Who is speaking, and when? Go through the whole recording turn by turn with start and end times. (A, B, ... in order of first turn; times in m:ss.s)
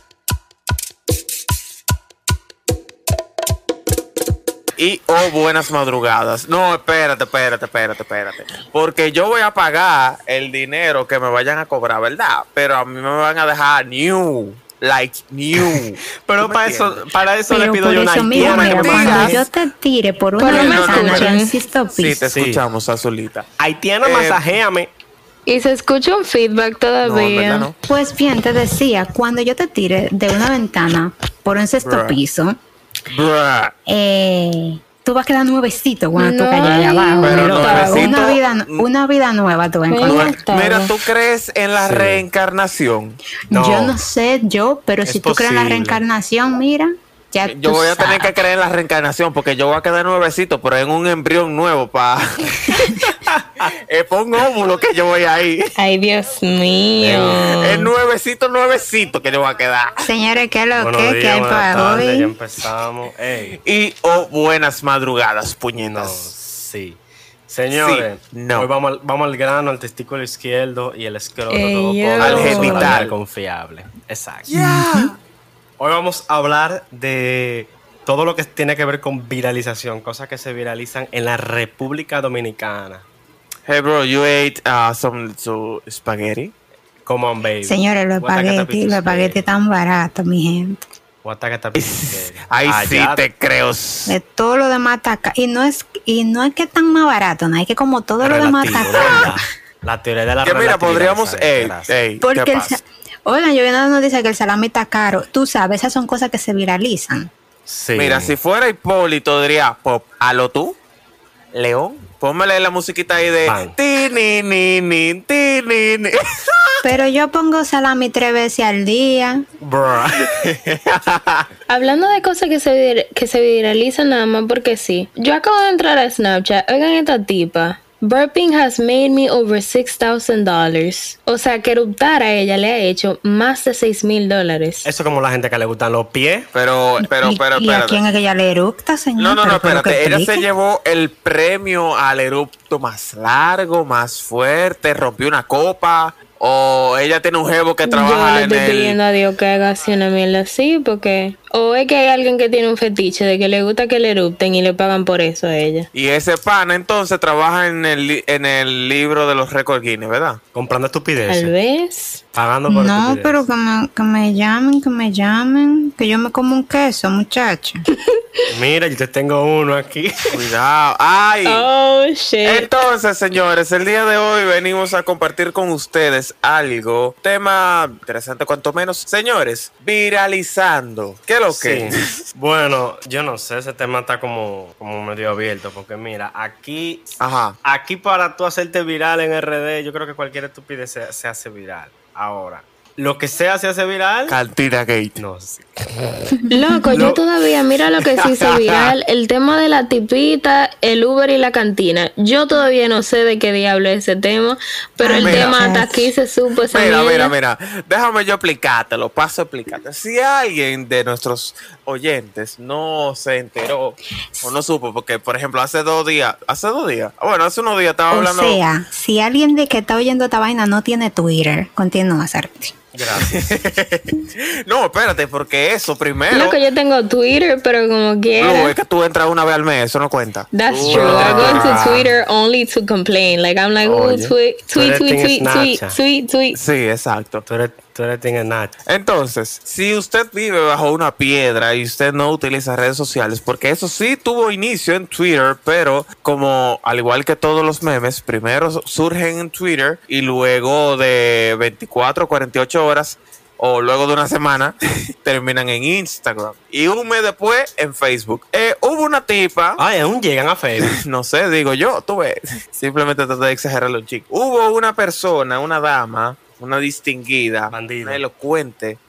0:04.8-0:17.0 A
0:15.6-0:19.5 B
0:17.5-0:22.3 C
0:18.4-0:19.5 A
0:20.4-0:21.6 D
0:20.4-0:23.5 A
0:22.3-0:22.6 B
0:23.6-0:24.9 B
0:24.0-0:24.4 A
0:25.5-0:27.7 D
0:27.0-0:27.8 A
0:27.8-0:32.6 C
0:31.8-0:32.2 A
0:33.1-0:33.8 A
0:33.9-0:40.4 C
0:36.2-0:38.2 D
0:37.2-0:38.8 A
0:39.9-0:41.0 D
0:40.0-0:43.2 A
0:41.8-0:42.2 B
0:43.5-0:44.0 B
0:43.5-0:48.3 C
0:45.0-0:46.0 B
0:47.4-0:53.0 A
0:53.1-0:53.7 B
0:53.6-0:55.7 A
0:55.8-0:57.9 D
0:57.0-0:57.6 B
0:57.1-1:00.0 A
1:00.0-1:02.3 C
1:00.7-1:03.6 B
1:03.6-1:06.3 A
1:05.8-1:14.8 B
1:07.7-1:08.7 A
1:11.5-1:13.0 D
1:12.2-1:13.2 A
1:14.5-1:15.2 A
1:15.8-1:23.1 B
1:23.7-1:26.5 A
1:27.0-1:29.4 B
1:27.6-1:30.9 C
1:31.2-1:33.2 B
1:31.8-1:34.2 A
1:34.1-1:39.4 C
1:38.2-1:41.9 B
1:40.4-1:42.8 A
1:42.2-1:47.3 C
1:47.7-1:48.4 B
1:48.0-1:50.8 A
1:51.5-1:56.8 A
1:53.5-1:53.8 B
1:56.8-1:59.4 C
1:59.6-2:00.3 B
2:00.2-2:01.5 A
2:01.7-2:14.9 D
2:14.8-2:16.5 B
2:16.5-2:18.0 A
2:17.0-2:20.4 C
2:19.2-2:29.0 A
2:27.8-2:35.9 D
2:35.9-2:40.4 A
2:40.5-2:41.5 B
2:41.3-2:42.2 D
2:42.3-2:43.4 B
2:42.7-2:47.8 C
2:48.5-2:50.5 B
2:50.3-2:51.7 A
2:51.4-2:52.7 D
2:52.4-3:02.0 A
3:01.5-3:14.4 B
3:07.2-3:07.6 A
3:14.3-3:15.2 A
3:15.2-3:17.2 B
3:16.5-3:27.3 D
3:18.1-3:19.0 A
3:25.0-3:26.1 C
3:25.2-3:25.6 A
3:26.7-3:38.6 A
3:38.1-3:42.8 C
3:42.9-3:43.6 B
3:43.2-3:46.6 A
3:46.3-3:48.8 D
3:48.4-3:52.0 A
3:50.5-3:56.6 D
3:50.8-3:52.2 B
3:53.9-3:54.2 A
3:53.9-3:56.0 B
3:56.5-3:57.4 A
3:57.5-3:58.8 B
3:58.9-4:19.8 A
4:19.8-4:21.0 B
4:20.8-4:29.0 A
4:27.7-4:28.2 B